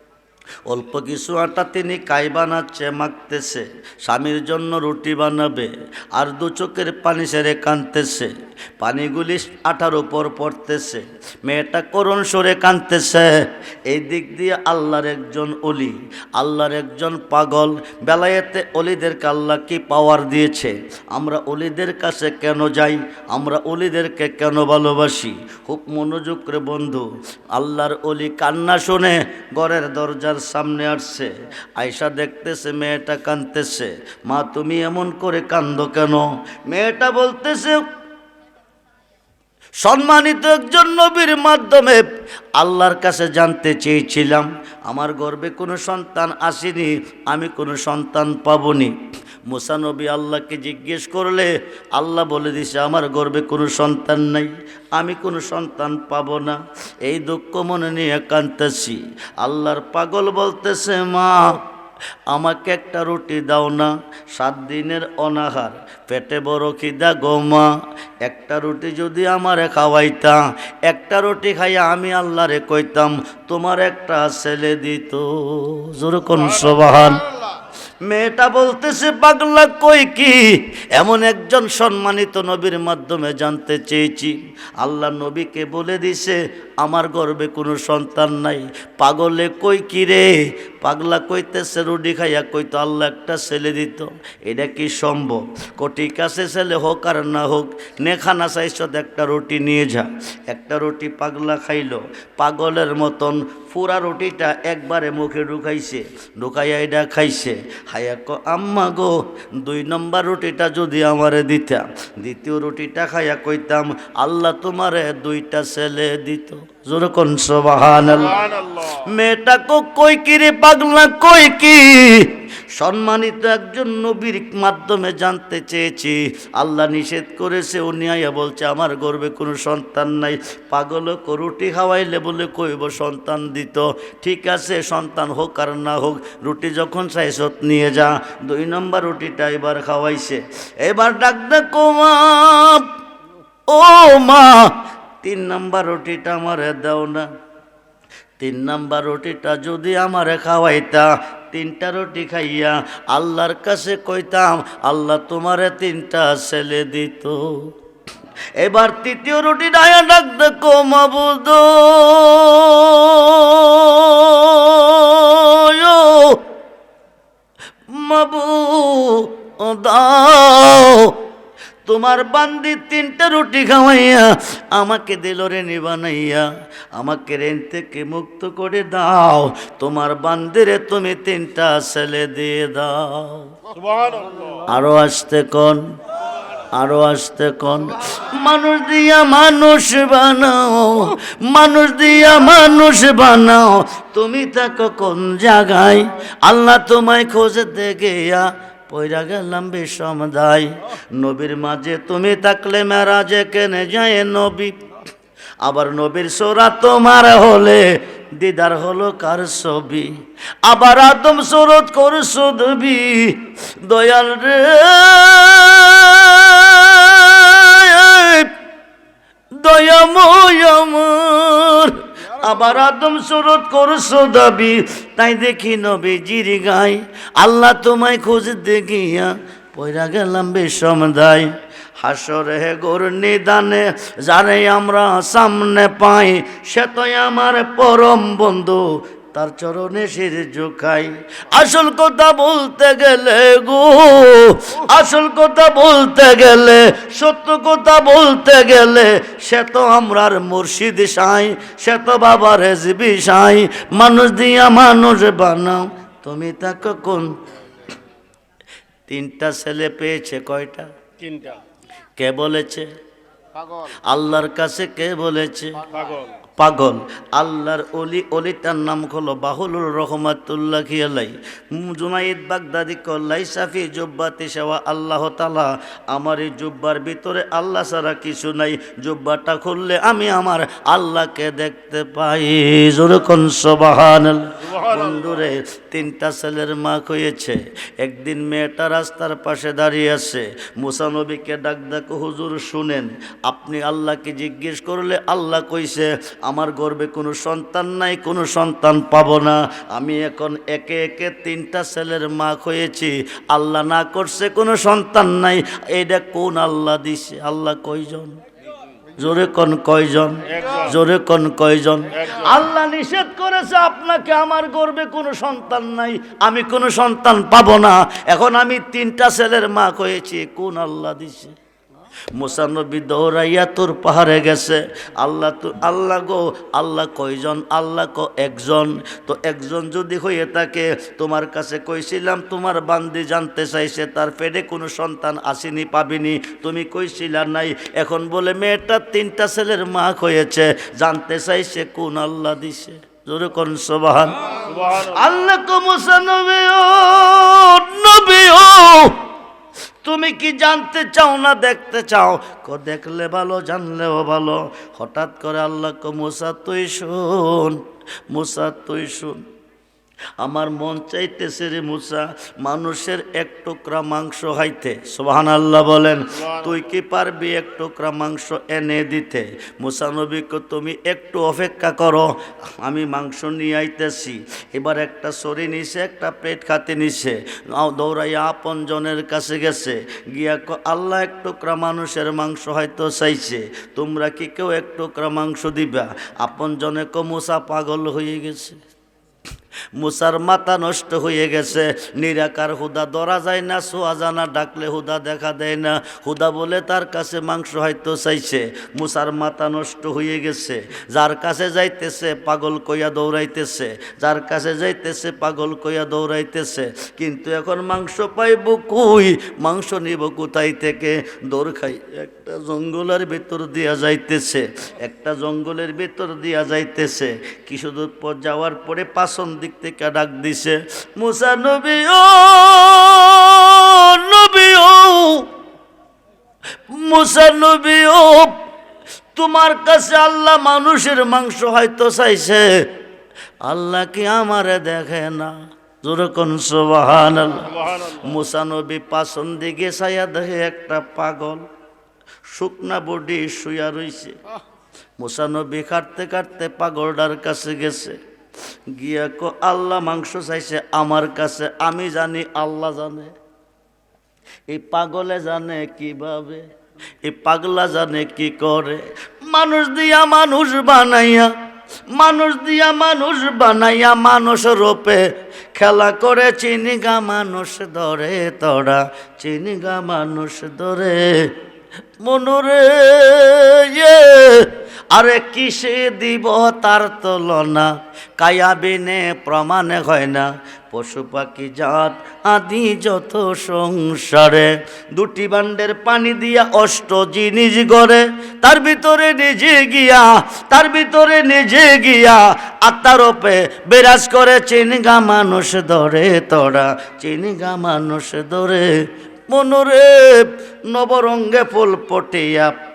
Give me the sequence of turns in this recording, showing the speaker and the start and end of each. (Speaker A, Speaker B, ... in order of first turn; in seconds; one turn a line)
Speaker A: 0.7-37.8
Speaker A: 39.8-42.0
Speaker A: 42.6-61.6
Speaker A: 62.3-67.7
Speaker A: 68.2-77.3
Speaker A: 78.0-142.9
Speaker B: 118.1-119.0
Speaker A: 143.7-147.3
Speaker A: 148.4-157.7
Speaker A: 158.6-166.4
Speaker A: 167.9-171.2
Speaker A: 171.8-183.5
Speaker B: 183.7-184.7
Speaker A: 184.7-185.8
Speaker A: 186.7-204.7
Speaker A: 205.6-210.1
Speaker A: 210.6-218.5
Speaker A: 219.6-257.3
Speaker A: 259.1-260.9
Speaker B: 261.2-261.6
Speaker A: 262.2-262.9
Speaker A: 264.1-265.9
Speaker B: 265.9-266.3
Speaker A: 266.6-308.4
Speaker B: 284.6-285.2
Speaker A: 309.2-321.5
Speaker B: 310.5-310.9
Speaker B: 312.1-312.5
Speaker A: 322.3-349.2
Speaker B: 344.6-345.2
Speaker A: 350.0-359.4
Speaker A: 360.4-388.8
Speaker B: 366.4-366.7
Speaker A: 389.9-425.5
Speaker A: 426.9-428.6
Speaker A: 429.3-432.7
Speaker A: 433.6-441.6
Speaker B: 437.6-438.2
Speaker A: 442.4-444.4
Speaker A: 445.2-448.2
Speaker A: 448.9-453.3
Speaker A: 454.7-456.6
Speaker A: 457.2-461.5
Speaker A: 462.1-465.2
Speaker A: 465.7-471.5
Speaker A: 472.2-499.0
Speaker A: 499.5-502.7